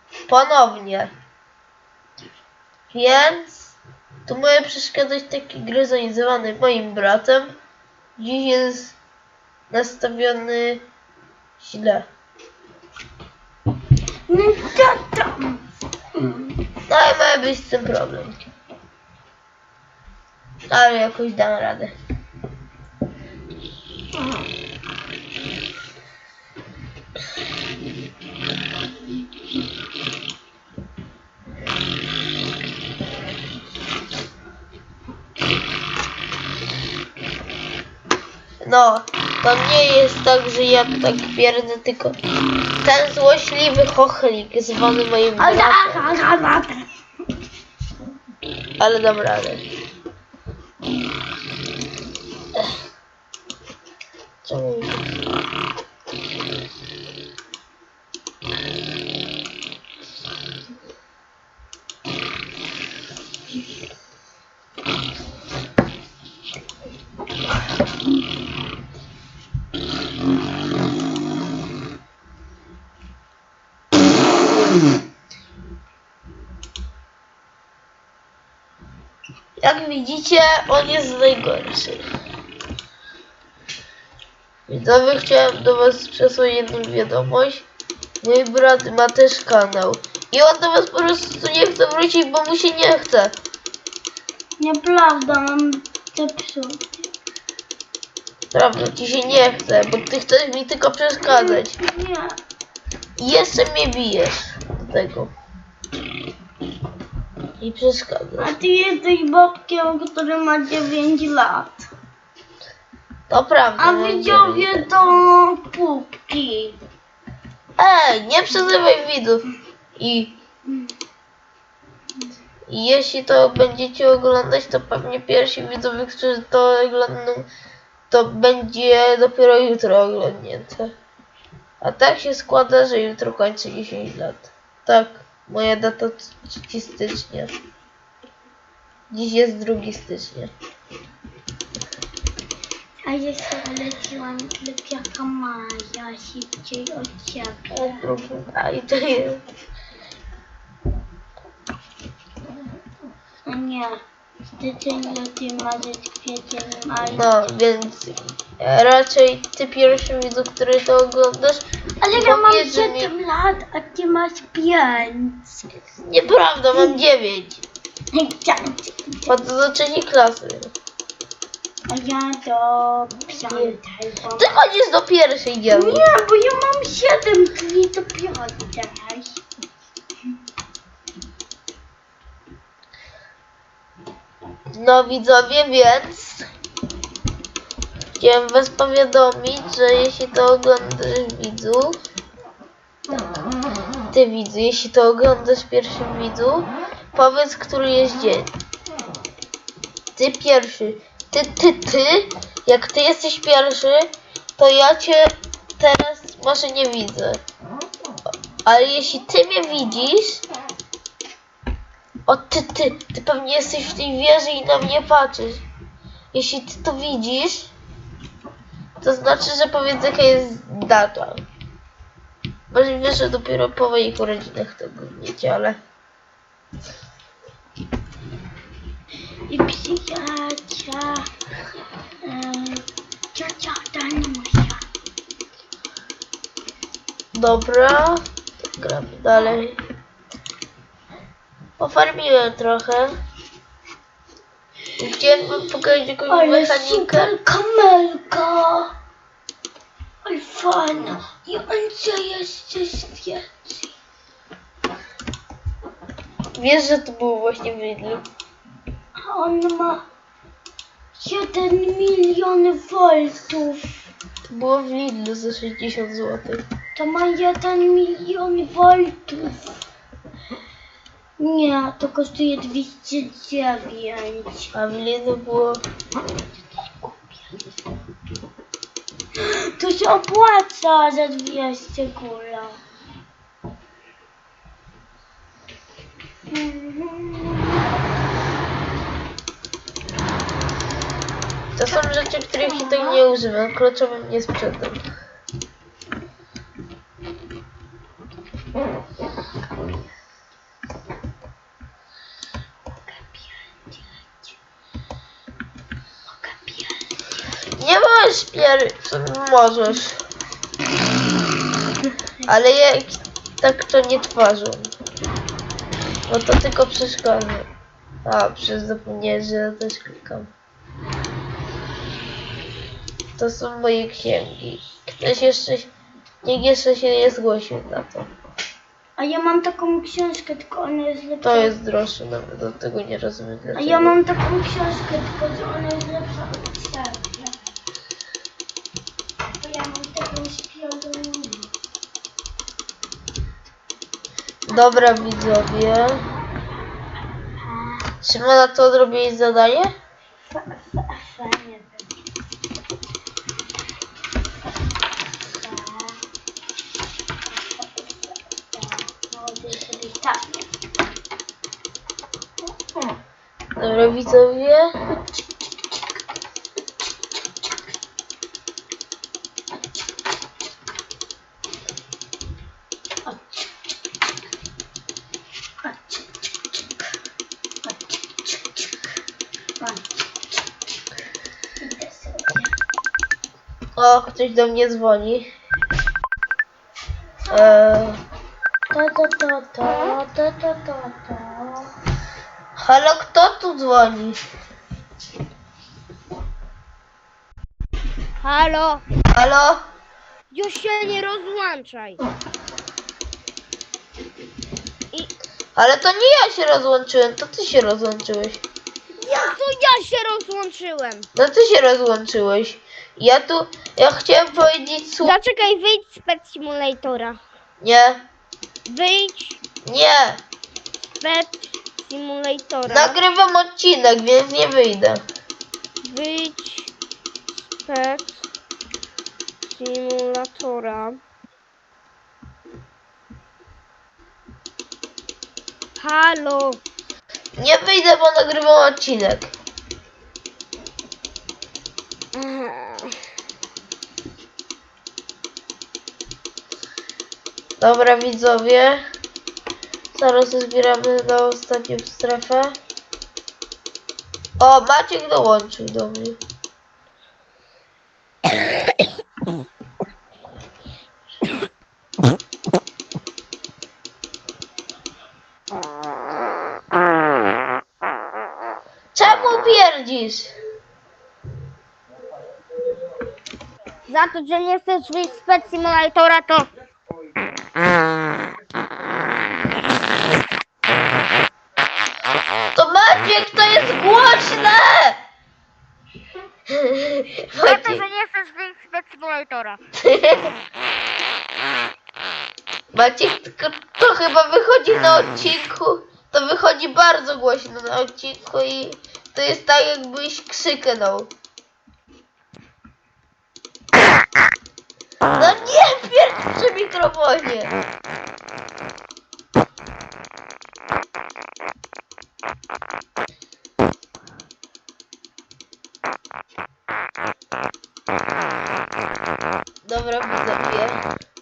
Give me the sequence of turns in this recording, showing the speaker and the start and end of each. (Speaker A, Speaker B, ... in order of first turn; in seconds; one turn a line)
Speaker A: 0.3-1.1
Speaker A: 2.9-7.5
Speaker A: 8.2-9.0
Speaker A: 9.7-10.8
Speaker A: 11.6-12.1
Speaker B: 14.3-15.6
Speaker B: 16.2-16.4
Speaker A: 16.9-18.4
Speaker A: 20.7-21.9
Speaker A: 38.6-42.1
Speaker A: 42.8-46.1
Speaker B: 45.4-46.9
Speaker A: 48.8-49.6
Speaker A: 54.5-55.0
Speaker A: 79.6-82.0
Speaker A: 84.7-87.7
Speaker A: 88.2-93.3
Speaker B: 94.6-97.1
Speaker A: 98.5-101.8
Speaker B: 101.3-102.4
Speaker A: 103.2-105.3
Speaker A: 107.6-108.5
Speaker B: 108.4-111.9
Speaker A: 113.3-114.9
Speaker B: 113.8-116.8
Speaker A: 117.8-119.5
Speaker A: 120.0-120.3
Speaker A: 122.7-127.5
Speaker A: 128.1-130.9
Speaker A: 131.8-137.5
Speaker A: 139.1-140.5
Speaker B: 143.1-148.0
Speaker A: 147.7-149.4
Speaker B: 153.5-154.0
Speaker B: 154.6-157.2
Speaker A: 157.2-163.1
Speaker B: 162.0-165.7
Speaker A: 166.0-167.6
Speaker B: 166.7-167.0
Speaker B: 168.1-169.3
Speaker A: 169.3-170.7
Speaker B: 171.9-174.6
Speaker A: 173.4-173.8
Speaker A: 174.4-176.1
Speaker B: 175.7-179.4
Speaker A: 184.8-186.5
Speaker A: 188.2-192.0
Speaker A: 194.1-198.5
Speaker A: 200.2-207.4
Speaker A: 208.7-210.4
Speaker A: 212.3-215.6
Speaker A: 216.3-217.7
Speaker A: 219.0-221.4
Speaker A: 222.7-225.8
Speaker B: 229.5-231.3
Speaker B: 232.2-234.8
Speaker A: 237.3-238.2
Speaker A: 238.8-239.8
Speaker A: 241.8-243.1
Speaker A: 245.0-247.3
Speaker B: 246.3-248.9
Speaker B: 250.2-253.9
Speaker A: 256.6-258.2
Speaker B: 259.2-260.1
Speaker B: 261.1-264.1
Speaker A: 264.5-266.6
Speaker B: 267.0-269.7
Speaker B: 271.4-274.7
Speaker A: 274.7-275.8
Speaker B: 277.0-277.7
Speaker B: 279.4-282.8
Speaker B: 286.5-287.8
Speaker A: 291.8-295.0
Speaker B: 291.9-293.2
Speaker B: 303.0-304.5
Speaker B: 306.3-307.1
Speaker A: 307.8-310.2
Speaker A: 312.5-314.9
Speaker A: 316.3-317.7
Speaker A: 318.3-320.5
Speaker A: 323.4-325.9
Speaker A: 326.4-328.3
Speaker B: 329.2-331.8
Speaker A: 331.4-334.2
Speaker B: 333.8-337.6
Speaker B: 339.6-341.7
Speaker A: 344.7-346.2
Speaker B: 344.7-345.3
Speaker B: 346.3-346.6
Speaker B: 347.4-348.1
Speaker A: 348.2-349.9
Speaker B: 350.5-352.1
Speaker B: 355.5-356.2
Speaker B: 357.5-358.2
Speaker B: 358.7-360.6
Speaker A: 363.8-364.9
Speaker B: 373.2-373.8
Speaker B: 375.8-376.9
Speaker B: 377.8-378.9
Speaker B: 379.8-380.1
Speaker B: 381.8-382.7
Speaker A: 384.0-385.5
Speaker B: 387.4-387.8
Speaker A: 387.5-388.2
Speaker B: 388.9-391.9
Speaker A: 392.8-394.4
Speaker C: 398.4-399.0
Speaker A: 399.3-399.8
Speaker C: 400.5-402.2
Speaker A: 405.8-408.6
Speaker C: 409.2-411.3
Speaker A: 411.4-415.4
Speaker C: 415.2-417.4
Speaker A: 417.8-418.2
Speaker C: 418.9-419.6
Speaker A: 419.9-420.4
Speaker C: 421.2-423.1
Speaker A: 422.9-425.2
Speaker C: 426.0-426.9
Speaker C: 427.7-428.4
Speaker C: 429.7-431.2
Speaker C: 436.0-436.8
Speaker A: 437.6-439.5
Speaker C: 442.4-443.1
Speaker A: 447.8-449.0
Speaker A: 450.1-452.8
Speaker A: 454.6-456.4
Speaker A: 469.1-470.5
Speaker C: 474.1-476.7
Speaker A: 482.8-485.2
Speaker A: 486.8-488.1
Speaker C: 487.6-489.8
Speaker A: 490.0-490.5
Speaker A: 492.9-501.3
Speaker A: 505.4-507.7
Speaker A: 519.9-521.0